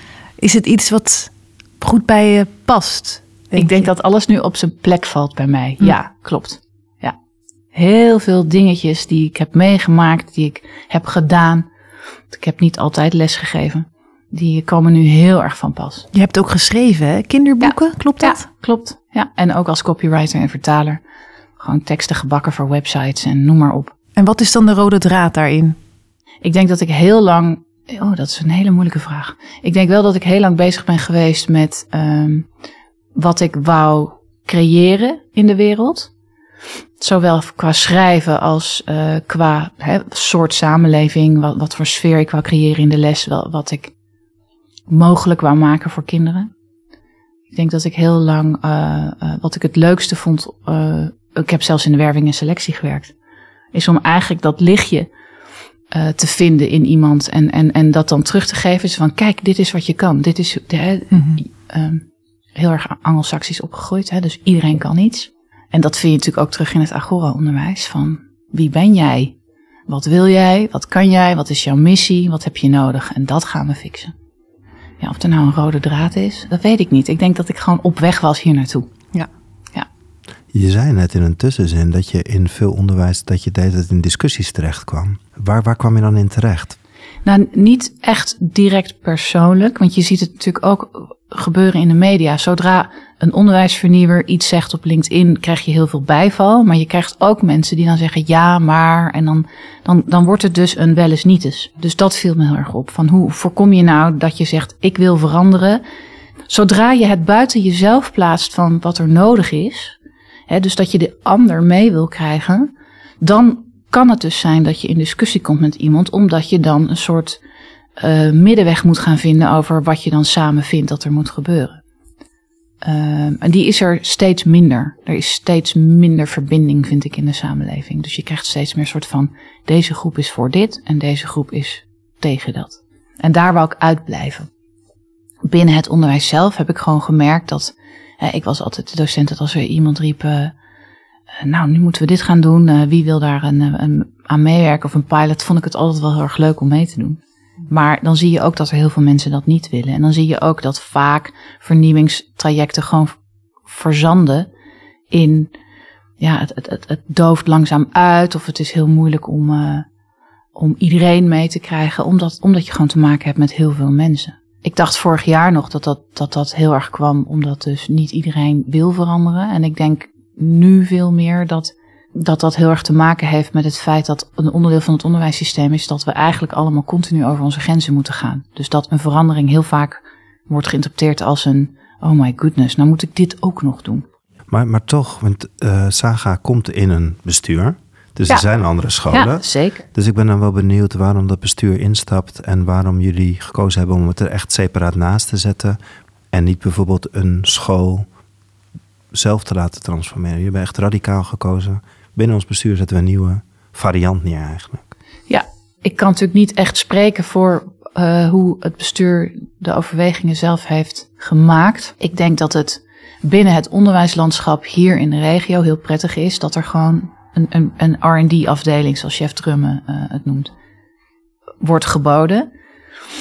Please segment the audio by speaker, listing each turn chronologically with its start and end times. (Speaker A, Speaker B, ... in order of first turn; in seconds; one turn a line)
Speaker A: 0.4-3.9
Speaker B: 3.5-7.2
Speaker B: 7.7-11.7
Speaker B: 12.3-16.1
Speaker A: 16.1-18.4
Speaker B: 17.6-21.0
Speaker B: 21.6-23.9
Speaker A: 24.1-25.8
Speaker B: 26.4-32.5
Speaker B: 33.1-36.1
Speaker B: 37.0-43.9
Speaker B: 44.9-46.5
Speaker B: 47.5-53.1
Speaker B: 53.7-55.1
Speaker B: 55.9-69.3
Speaker A: 61.1-61.4
Speaker B: 69.9-74.1
Speaker B: 75.0-78.9
Speaker C: 80.5-86.8
Speaker B: 87.2-105.8
Speaker B: 106.5-110.0
Speaker B: 110.5-117.4
Speaker B: 118.0-121.8
Speaker B: 122.8-134.5
Speaker B: 135.4-140.5
Speaker B: 141.4-153.1
Speaker B: 153.7-154.5
Speaker B: 155.1-155.5
Speaker B: 156.2-159.8
Speaker B: 160.5-184.0
Speaker C: 184.5-195.8
Speaker B: 189.1-189.8
Speaker C: 196.3-198.1
Speaker C: 199.1-204.9
Speaker B: 205.3-220.5
Speaker B: 221.6-222.5